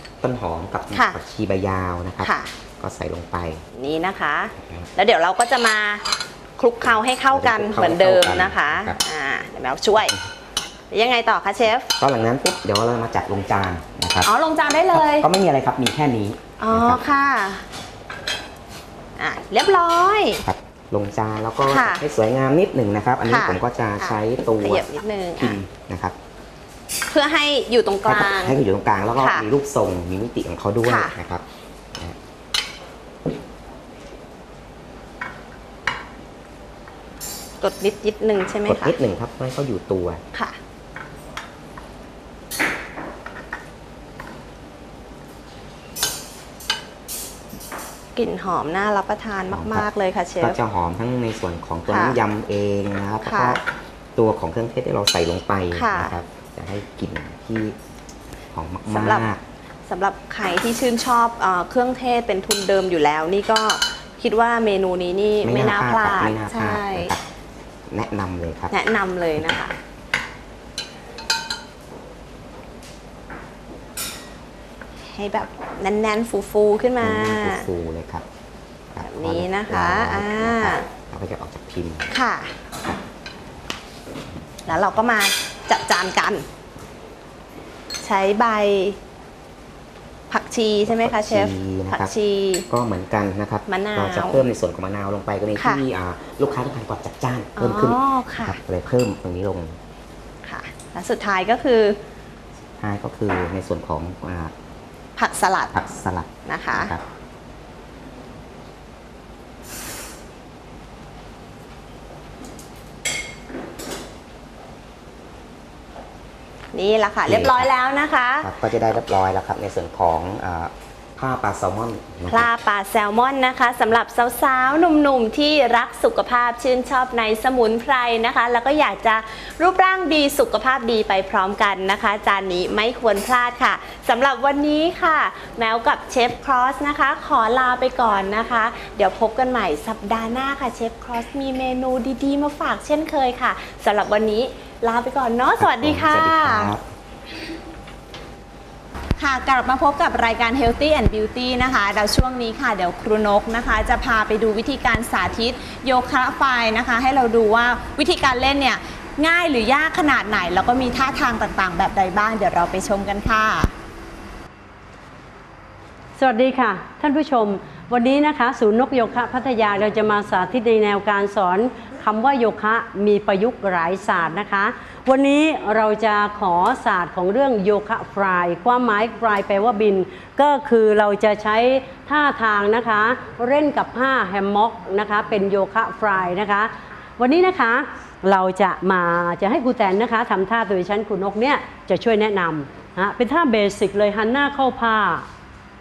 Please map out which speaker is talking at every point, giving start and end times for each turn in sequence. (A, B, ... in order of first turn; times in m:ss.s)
0:00.2-0:03.6 A
0:02.2-0:02.5 B
0:03.7-0:06.0 B
0:04.6-0:04.9 A
0:06.6-0:10.1 B
0:07.3-0:09.0 A
0:10.9-0:11.9 B
0:12.0-0:14.3 A
0:14.2-0:15.3 B
0:14.9-0:17.0 A
0:16.6-0:17.6 B
0:19.2-0:20.4 B
0:20.4-0:24.8 A
0:21.7-0:22.0 B
0:23.3-0:25.6 B
0:25.4-0:26.1 A
0:27.1-0:28.6 B
0:28.0-0:31.4 A
0:29.2-0:29.4 B
0:30.8-0:31.1 B
0:37.6-0:39.0 B
0:38.6-0:40.2 A
0:48.2-0:50.6 B
0:49.5-0:49.9 A
0:50.4-0:53.6 A
0:51.9-0:52.2 B
0:53.2-0:53.6 B
0:54.2-0:57.8 A
0:55.7-0:56.2 B
0:58.5-0:59.4 A
0:58.9-0:59.3 B
0:59.9-1:07.1 B
1:05.4-1:07.2 A
1:07.9-1:08.7 A
1:08.7-1:09.8 B
1:15.0-1:17.6 B
1:17.0-1:18.2 A
1:18.9-1:22.1 A
1:19.0-1:20.8 B
1:22.1-1:22.5 B
1:24.7-1:26.4 B
1:28.0-1:29.0 B
1:30.3-1:32.7 B
1:30.8-1:32.1 A
1:32.7-1:39.8 A
1:33.7-1:34.4 B
1:35.6-1:35.8 B
1:37.6-1:38.6 B
1:40.4-1:42.0 B
1:42.8-1:44.5 A
1:45.2-1:45.7 B
1:45.7-1:47.0 A
1:46.4-1:46.9 B
1:56.7-1:58.5 B
1:57.2-1:57.7 A
1:58.4-2:02.5 A
2:02.3-2:26.7 B
2:25.6-2:26.8 A
2:29.2-2:43.7 B
2:46.2-3:15.2 C